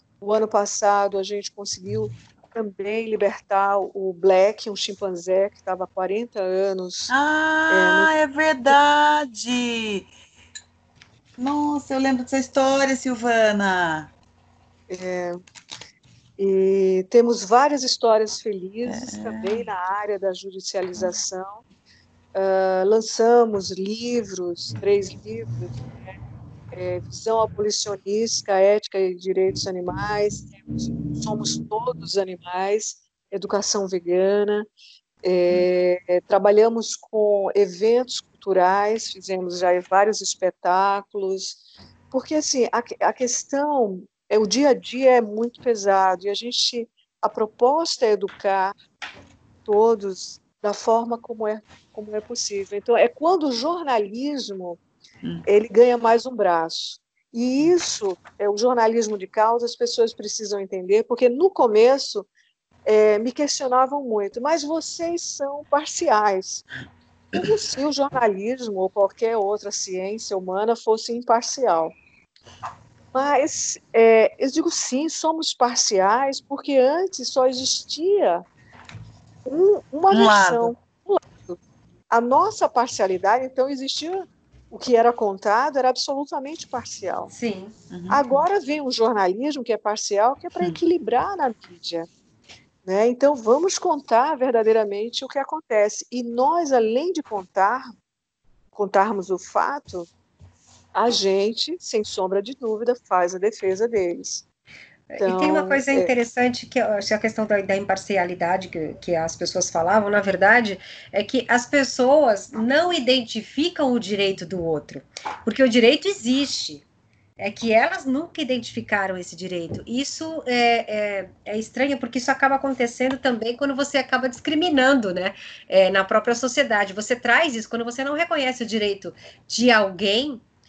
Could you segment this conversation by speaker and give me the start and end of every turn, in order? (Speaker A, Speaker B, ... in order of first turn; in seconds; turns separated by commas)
Speaker A: 0.2-7.1, Speaker B: 7.1-10.1, Speaker A: 7.7-8.1, Speaker B: 11.4-14.1, Speaker A: 14.9-15.4, Speaker A: 16.4-21.6, Speaker B: 18.9-19.7, Speaker A: 22.3-26.1, Speaker A: 26.7-34.7, Speaker A: 35.2-41.6, Speaker A: 42.1-48.8, Speaker A: 49.6-54.8, Speaker A: 55.5-62.3, Speaker A: 62.9-66.6, Speaker A: 67.3-72.0, Speaker A: 73.1-78.5, Speaker A: 79.5-81.6, Speaker B: 80.1-80.7, Speaker A: 82.1-87.3, Speaker C: 87.3-87.7, Speaker B: 87.9-88.4, Speaker A: 88.1-92.1, Speaker A: 92.8-97.9, Speaker A: 98.7-100.1, Speaker A: 100.9-104.4, Speaker C: 105.1-116.8, Speaker A: 105.2-106.1, Speaker C: 117.4-130.4